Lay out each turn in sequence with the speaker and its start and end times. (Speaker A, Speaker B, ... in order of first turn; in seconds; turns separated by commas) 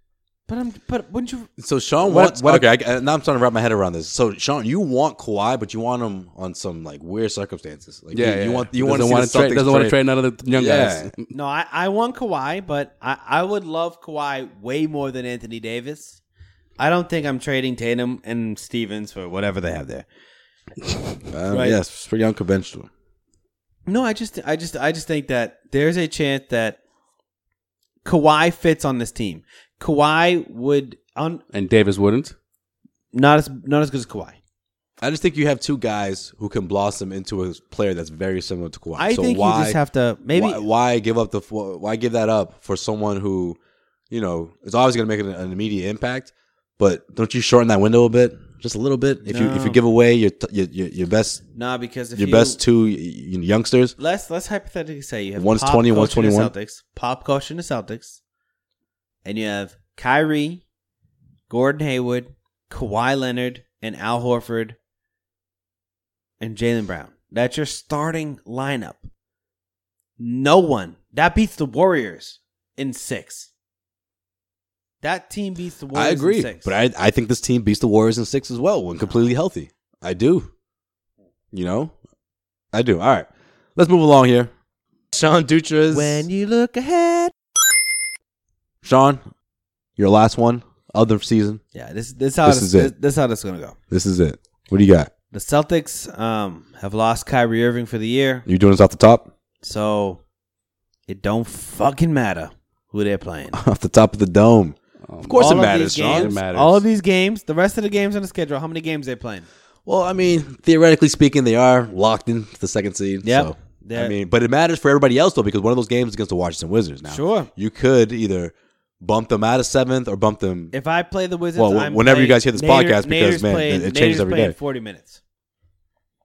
Speaker A: 0.5-1.5, Speaker B: 1.6-10.0, Speaker C: 2.0-2.7, Speaker C: 8.1-11.3, Speaker B: 10.5-11.1, Speaker A: 11.3-16.2, Speaker A: 16.8-20.1, Speaker B: 21.3-22.9, Speaker A: 21.5-21.8, Speaker A: 23.9-26.8, Speaker A: 28.0-31.4, Speaker C: 31.5-32.3, Speaker A: 33.1-34.4, Speaker B: 35.0-39.8, Speaker A: 39.0-40.6, Speaker B: 40.3-43.6, Speaker B: 44.1-51.4, Speaker A: 49.2-49.8, Speaker A: 51.5-52.6, Speaker B: 52.1-53.9, Speaker A: 54.0-58.2, Speaker B: 55.4-56.5, Speaker A: 59.2-60.6, Speaker A: 61.5-64.8, Speaker A: 66.4-69.1, Speaker A: 70.2-73.5, Speaker A: 75.0-76.7, Speaker B: 75.9-80.5, Speaker B: 81.5-81.9, Speaker B: 82.7-84.5, Speaker B: 85.1-86.2, Speaker A: 85.9-87.3, Speaker B: 88.8-89.2, Speaker B: 90.0-91.6, Speaker A: 91.7-93.8, Speaker B: 92.4-92.9, Speaker B: 93.9-95.1, Speaker A: 95.3-98.5, Speaker B: 98.5-99.3, Speaker A: 99.6-100.2, Speaker A: 101.1-103.6, Speaker B: 103.5-106.3, Speaker C: 105.1-106.8, Speaker A: 105.4-109.5, Speaker B: 109.8-120.7, Speaker A: 113.2-114.1, Speaker A: 117.1-117.5, Speaker A: 120.7-125.2, Speaker B: 121.5-124.5